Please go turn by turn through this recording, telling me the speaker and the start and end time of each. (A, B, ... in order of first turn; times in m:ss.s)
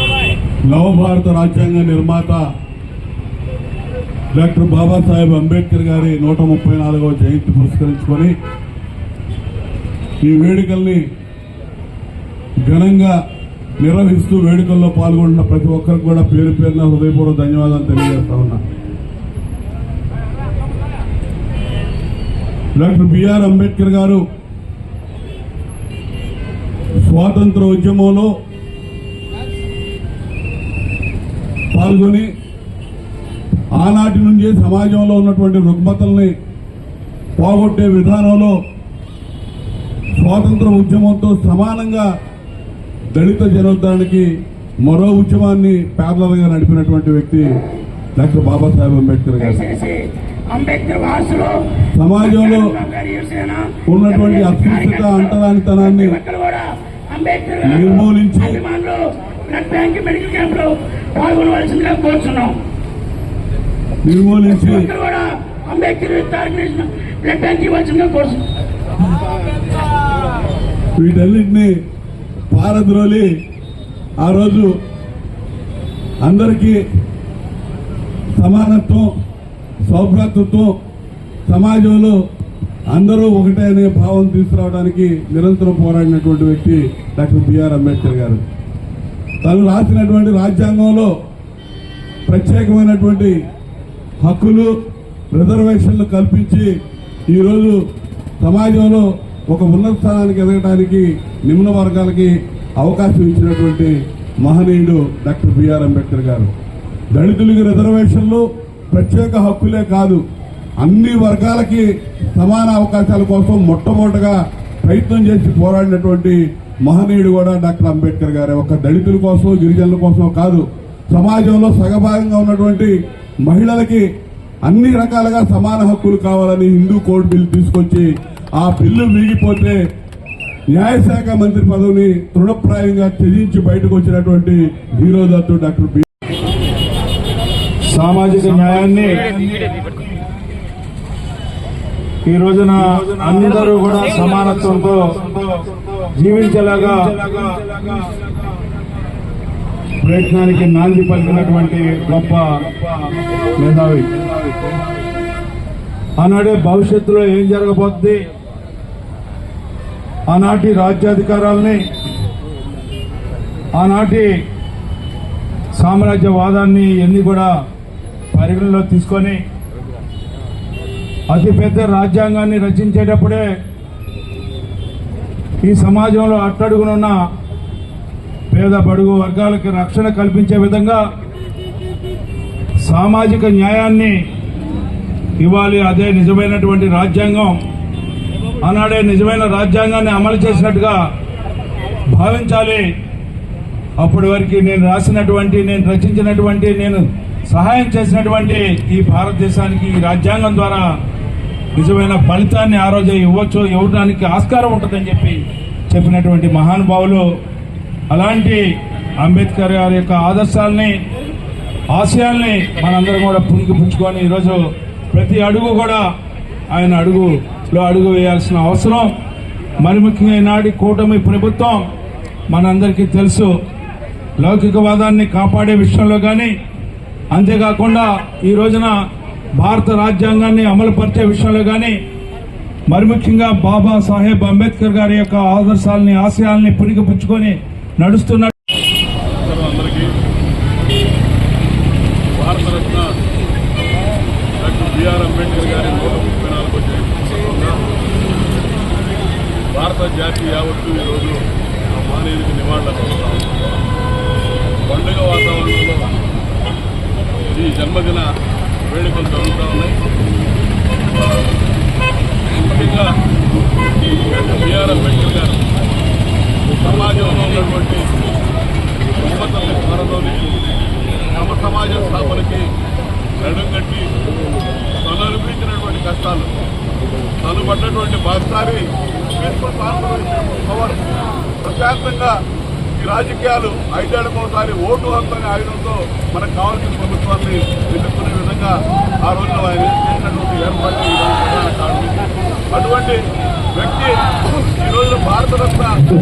0:00.7-0:02.4 A
0:04.3-0:08.3 A
0:10.2-0:11.0 A
0:12.6-0:13.2 A
0:13.8-0:18.6 A
0:22.8-0:24.2 A
0:27.0-0:28.3 A
0:31.7-0:32.3 A
0:33.7-0:36.3 A
0:37.4-0:38.6 A
0:40.2-0:42.1 A
0:43.1-0:44.3 A
0:44.8-0:47.6 A
0:48.2-0:49.6 A
0:49.5-0:51.6 B
0:52.0-0:52.8 A
0:52.3-0:55.3 B
0:53.8-0:56.2 A
0:55.9-1:02.6 B
0:57.6-0:58.6 A
1:04.0-1:04.9 A
1:04.5-1:08.4 B
1:11.0-1:11.7 A
1:12.5-1:13.3 A
1:14.2-1:14.7 A
1:16.2-1:16.8 A
1:18.4-1:19.1 A
1:19.9-1:20.7 A
1:21.5-1:22.2 A
1:22.9-1:28.4 A
1:29.4-1:31.1 A
1:32.3-1:33.3 A
1:34.2-1:34.7 A
1:35.3-1:36.7 A
1:37.3-1:37.8 A
1:38.4-1:46.5 A
1:47.1-1:50.2 A
1:50.8-2:02.9 A
2:03.4-2:04.0 A
2:04.6-2:09.8 A
2:10.7-2:16.0 A
2:17.9-2:19.7 C
2:22.2-2:25.6 C
2:26.1-2:28.1 C
2:30.0-2:32.6 C
2:33.6-2:34.1 C
2:36.2-2:38.2 C
2:40.3-2:41.8 C
2:43.8-2:44.3 C
2:45.7-2:47.5 C
2:48.3-2:49.4 C
2:51.3-2:53.5 C
2:55.6-2:57.1 C
2:58.5-3:01.0 C
3:02.8-3:04.1 C
3:05.4-3:07.6 C
3:08.6-3:11.0 C
3:12.1-3:12.8 C
3:14.0-3:20.8 C
3:21.7-3:27.2 C
3:28.1-3:28.6 C
3:29.2-3:31.0 C
3:31.9-3:34.6 C
3:35.1-3:36.0 C
3:36.7-3:39.1 C
3:39.8-3:41.8 C
3:42.5-3:43.5 C
3:44.4-3:46.5 C
3:47.3-3:48.9 C
3:49.6-3:52.0 C
3:52.9-3:58.5 C
3:59.4-4:00.1 A
4:02.4-4:03.1 A
4:04.6-4:07.7 A
4:09.7-4:11.3 A
4:11.9-4:13.7 A
4:14.9-4:16.0 A
4:17.5-4:18.2 A
4:18.9-4:20.0 A
4:22.5-4:23.0 A
4:24.3-4:25.6 A
4:26.8-4:28.0 A
4:29.2-4:30.5 A
4:31.3-4:32.6 A
4:33.4-4:34.0 A
4:35.0-4:36.5 A
4:37.4-4:38.8 A
4:39.4-4:41.0 A
4:41.6-4:42.3 A
4:43.0-4:48.7 A
4:49.2-4:52.2 A
4:52.7-4:53.2 A
4:53.8-4:54.1 A
4:54.8-4:56.0 A